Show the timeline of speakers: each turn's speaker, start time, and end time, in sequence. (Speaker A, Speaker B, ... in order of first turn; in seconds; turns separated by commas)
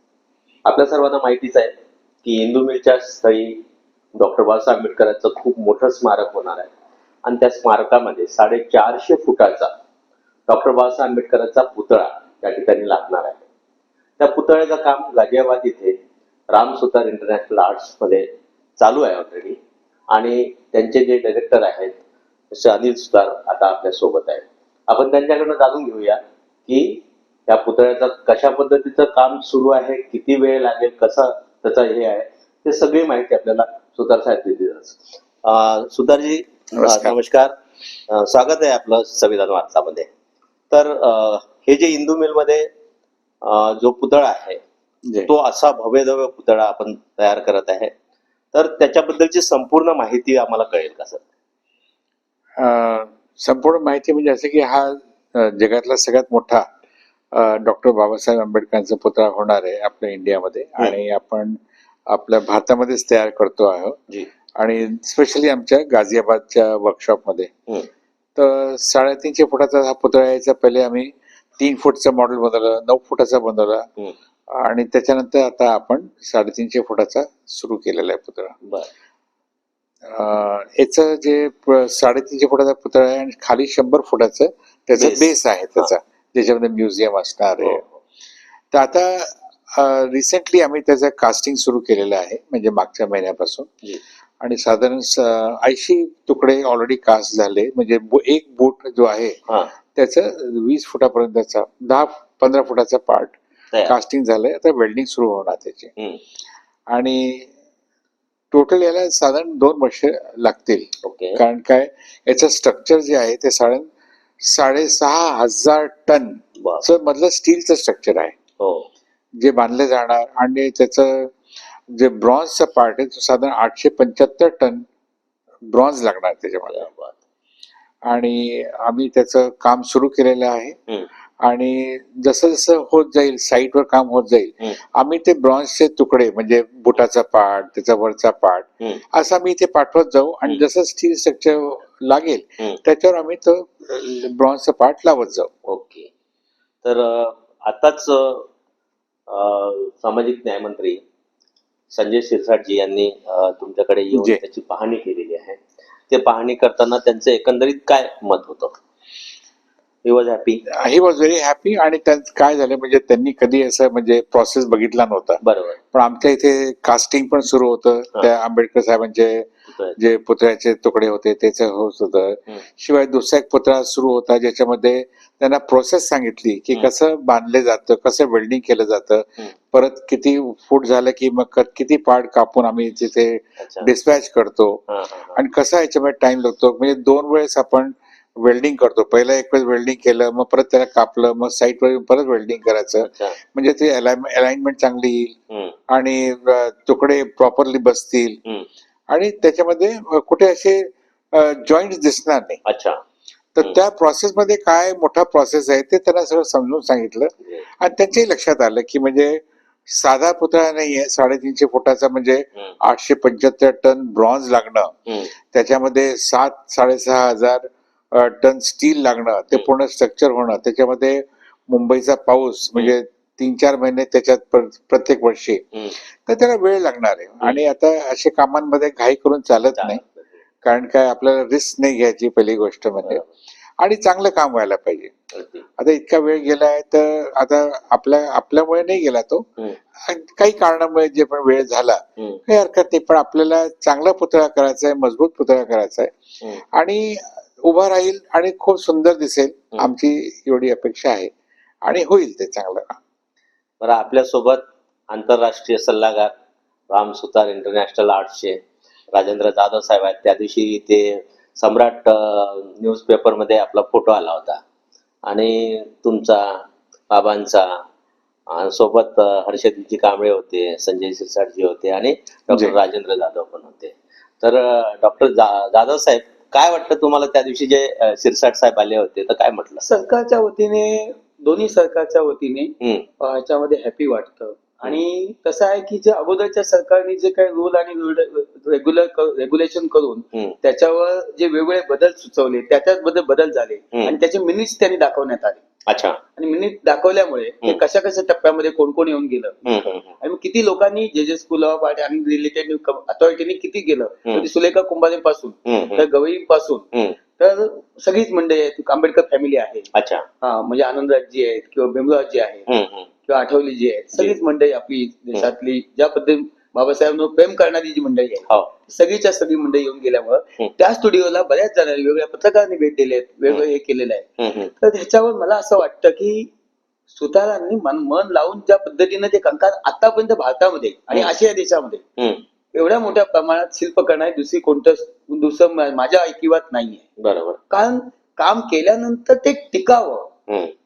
Speaker A: 0.7-3.6, Speaker A: 4.2-6.7, Speaker A: 7.2-9.7, Speaker A: 10.5-13.4, Speaker A: 14.2-16.0, Speaker A: 16.5-18.3, Speaker A: 18.8-19.6, Speaker A: 20.1-22.0, Speaker A: 22.5-37.5, Speaker B: 36.8-37.1, Speaker A: 38.1-40.1, Speaker A: 40.7-42.7, Speaker A: 43.4-44.6, Speaker B: 45.0-45.3, Speaker A: 45.3-47.9, Speaker A: 48.5-51.2, Speaker B: 52.6-56.7, Speaker B: 57.3-64.0, Speaker B: 64.6-67.5, Speaker B: 68.4-73.9, Speaker B: 74.5-78.6, Speaker B: 80.1-87.8, Speaker A: 85.0-85.9, Speaker A: 87.6-88.0, Speaker B: 88.7-93.7, Speaker B: 94.4-99.4, Speaker B: 99.9-105.9, Speaker B: 106.9-107.5, Speaker B: 108.5-113.9, Speaker A: 111.0-111.4, Speaker B: 114.4-118.3, Speaker A: 116.6-116.9, Speaker A: 118.6-118.9, Speaker B: 119.4-121.3, Speaker B: 121.9-124.9, Speaker B: 125.7-126.9, Speaker A: 126.7-127.2, Speaker B: 128.1-130.8, Speaker B: 131.4-145.5, Speaker A: 145.7-146.1, Speaker A: 146.8-148.5, Speaker A: 149.3-151.0, Speaker A: 151.9-155.6, Speaker B: 154.1-154.4, Speaker A: 156.1-158.8, Speaker A: 160.1-160.6, Speaker B: 160.7-165.4, Speaker A: 165.4-165.8, Speaker B: 165.9-195.3, Speaker A: 169.7-170.0, Speaker A: 183.6-183.9, Speaker A: 184.9-185.4, Speaker A: 193.0-193.4, Speaker B: 195.9-198.4, Speaker B: 199.1-202.6, Speaker A: 202.7-203.0, Speaker B: 203.6-214.9, Speaker B: 215.5-225.7, Speaker B: 226.2-230.0, Speaker A: 229.8-230.3, Speaker B: 230.6-233.2, Speaker A: 233.0-233.3, Speaker B: 233.8-235.1, Speaker A: 235.3-235.7, Speaker B: 235.8-239.4, Speaker B: 240.1-246.1, Speaker B: 246.7-251.3, Speaker B: 251.8-253.0, Speaker A: 253.8-256.3, Speaker A: 256.9-258.6, Speaker A: 259.1-264.6, Speaker A: 265.3-267.8, Speaker A: 268.5-279.8, Speaker C: 279.8-295.6, Speaker A: 295.9-296.2, Speaker C: 296.4-299.6, Speaker A: 299.6-300.1, Speaker C: 300.2-306.9, Speaker A: 305.7-306.0, Speaker C: 307.4-309.9, Speaker A: 309.9-310.3, Speaker C: 310.4-312.7, Speaker A: 312.7-313.1, Speaker C: 313.3-326.5, Speaker A: 324.4-324.7, Speaker C: 327.1-332.0, Speaker A: 332.2-332.4, Speaker C: 332.7-337.1, Speaker A: 337.2-337.6, Speaker C: 337.7-340.3